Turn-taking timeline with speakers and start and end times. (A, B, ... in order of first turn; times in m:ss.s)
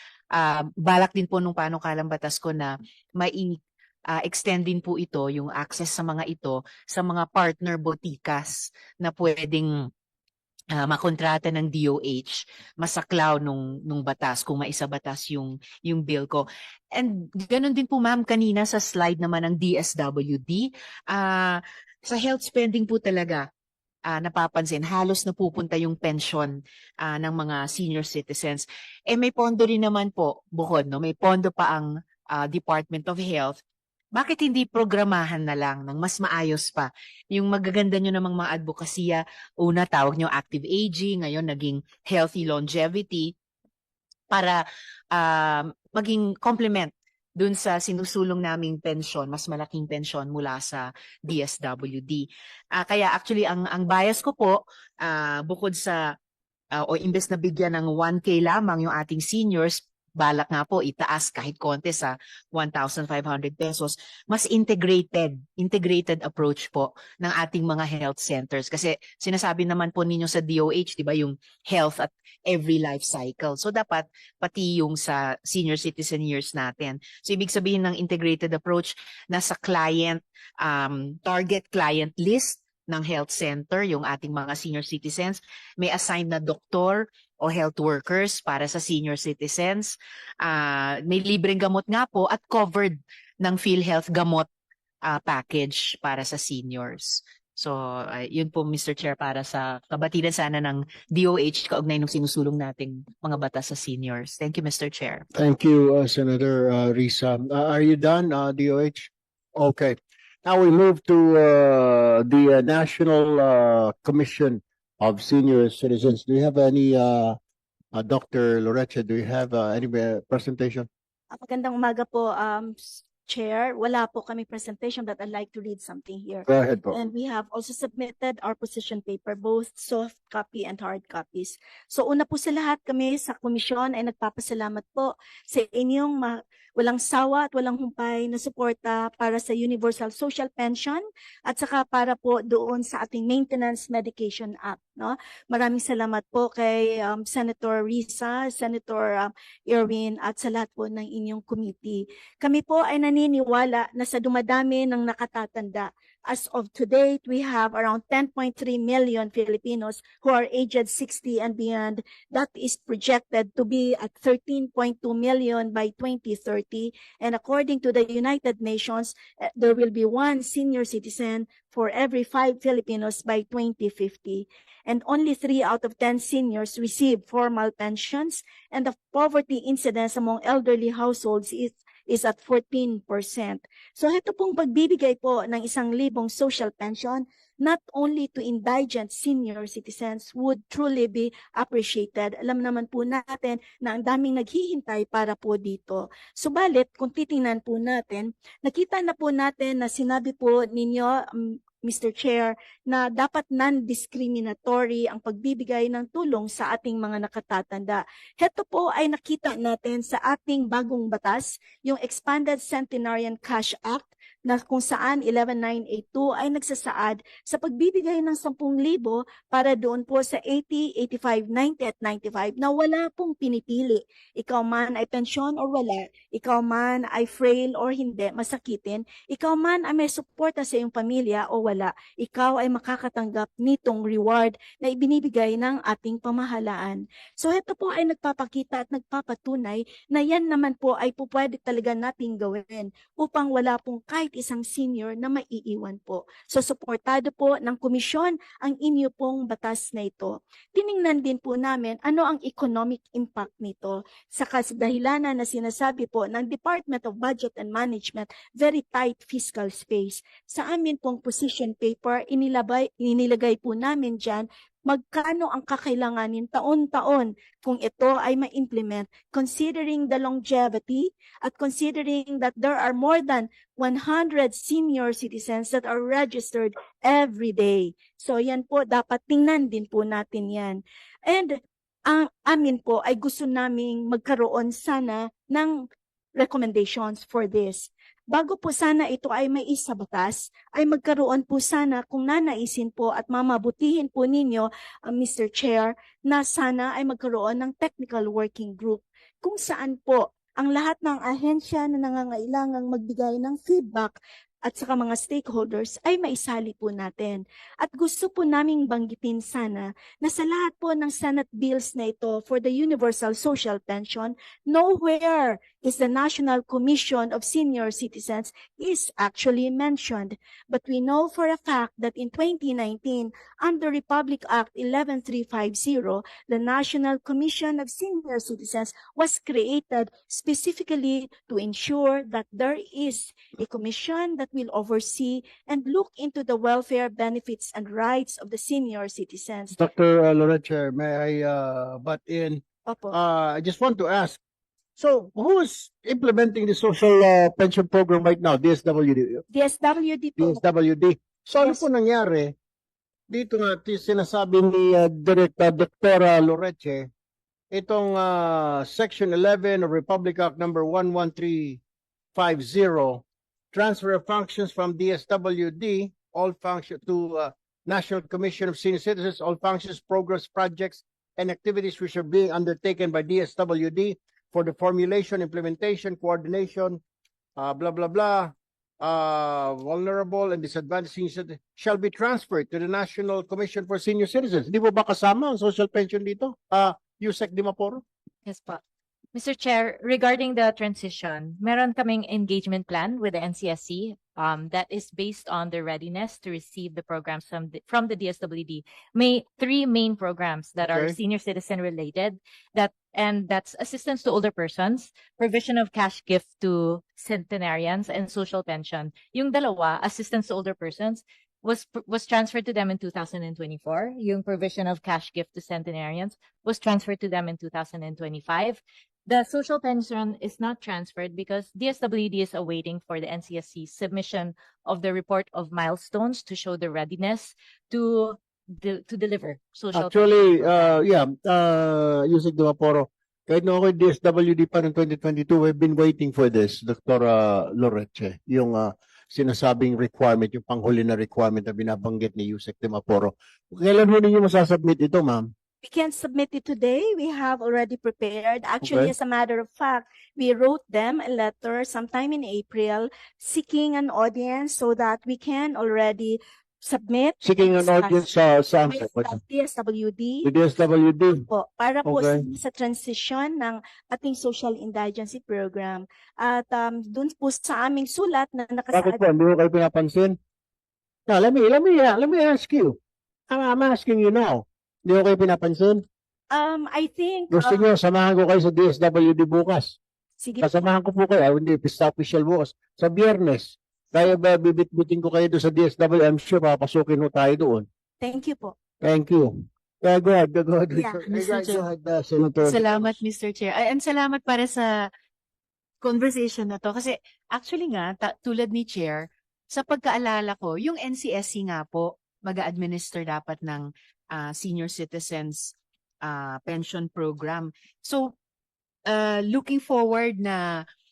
0:00.3-0:09.8 A
0:10.7-0:23.5 A
0:24.1-0:33.6 A
0:34.1-0:43.3 A
0:44.3-0:56.0 A
0:56.8-1:34.5 A
1:35.0-1:45.2 A
1:45.4-1:57.4 B
1:57.9-2:00.9 B
2:01.3-5:39.8 C
2:06.5-2:07.0 B
5:39.8-5:44.4 B
5:42.8-5:43.2 C
5:45.0-5:49.4 B
5:49.5-5:50.6 C
5:50.4-5:52.5 B
5:53.3-5:57.1 B
5:57.7-6:01.8 B
6:02.4-6:17.0 B
6:17.6-6:28.0 B
6:28.4-6:28.8 D
6:29.3-7:11.0 D
6:40.9-6:41.2 B
7:09.9-7:25.5 B
7:25.8-7:38.3 C
7:28.8-7:29.1 B
7:37.4-7:39.4 B
7:38.8-7:40.5 C
7:40.4-7:41.5 B
7:41.5-7:49.2 C
7:42.0-7:42.4 B
7:48.9-7:50.4 B
7:51.3-7:53.0 B
7:53.5-7:56.0 B
7:56.5-7:57.8 C
7:57.5-8:00.0 B
8:00.4-8:00.7 C
8:00.6-8:07.9 B
8:08.2-8:08.8 C
8:09.0-8:13.2 B
8:11.3-8:11.8 A
8:12.6-8:15.1 A
8:16.0-8:28.3 A
8:29.1-8:30.8 A